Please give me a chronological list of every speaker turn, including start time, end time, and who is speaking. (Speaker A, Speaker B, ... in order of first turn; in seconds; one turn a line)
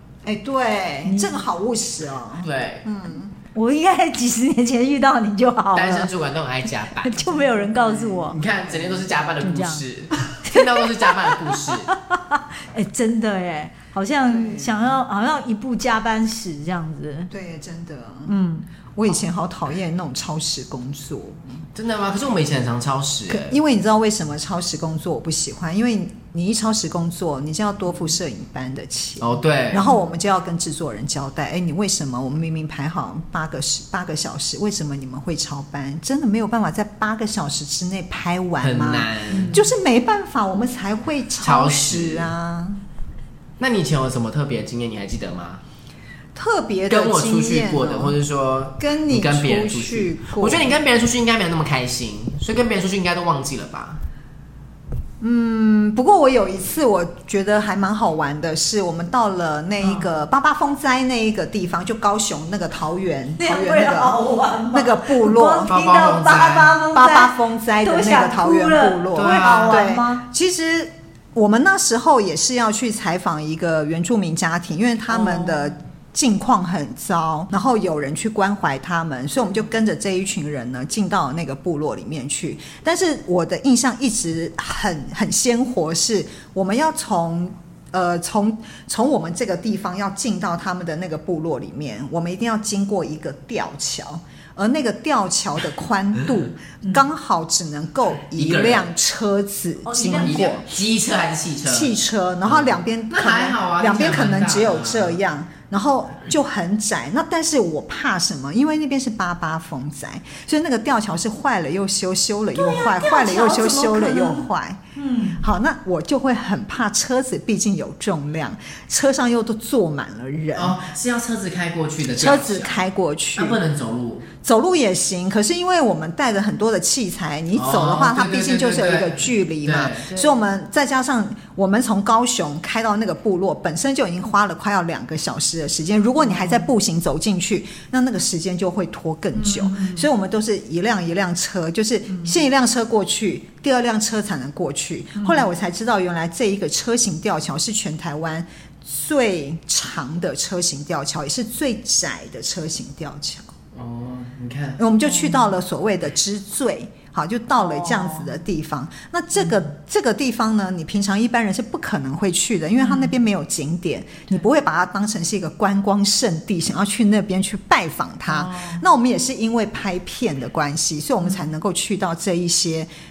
Speaker A: 0.2-3.3
Speaker B: 1.1-1.4
Speaker C: 2.4-2.8
Speaker B: 3.5-6.1
Speaker C: 5.7-11.9
Speaker B: 7.0-8.4
Speaker B: 9.4-9.8
Speaker B: 10.4-17.3
Speaker A: 14.2-14.9
Speaker A: 17.3-18.3
Speaker B: 18.2-18.6
Speaker A: 18.9-21.6
Speaker C: 21.7-23.6
Speaker A: 23.3-42.8
Speaker C: 29.2-29.9
Speaker C: 38.6-39.6
Speaker B: 39.3-39.6
Speaker C: 41.4-42.3
Speaker C: 43.6-45.6
Speaker A: 46.3-48.2
Speaker C: 46.9-54.0
Speaker A: 48.8-50.8
Speaker A: 55.2-64.2
Speaker B: 63.4-70.2
Speaker A: 64.7-65.7
Speaker C: 65.7-66.8
Speaker A: 66.9-100.7
Speaker C: 69.1-69.8
Speaker B: 75.1-75.7
Speaker C: 98.3-98.9
Speaker B: 99.8-100.6
Speaker C: 100.1-101.9
Speaker A: 101.6-114.8
Speaker C: 102.5-105.2
Speaker B: 112.5-115.4
Speaker A: 115.4-120.8
Speaker C: 120.5-122.8
Speaker A: 122.2-123.6
Speaker C: 123.3-124.3
Speaker A: 124.4-153.5
Speaker C: 127.5-130.1
Speaker B: 139.3-140.1
Speaker B: 145.2-145.5
Speaker C: 153.7-154.8
Speaker A: 154.8-172.9
Speaker B: 155.1-155.4
Speaker B: 157.6-158.3
Speaker B: 162.8-163.1
Speaker B: 168.4-168.8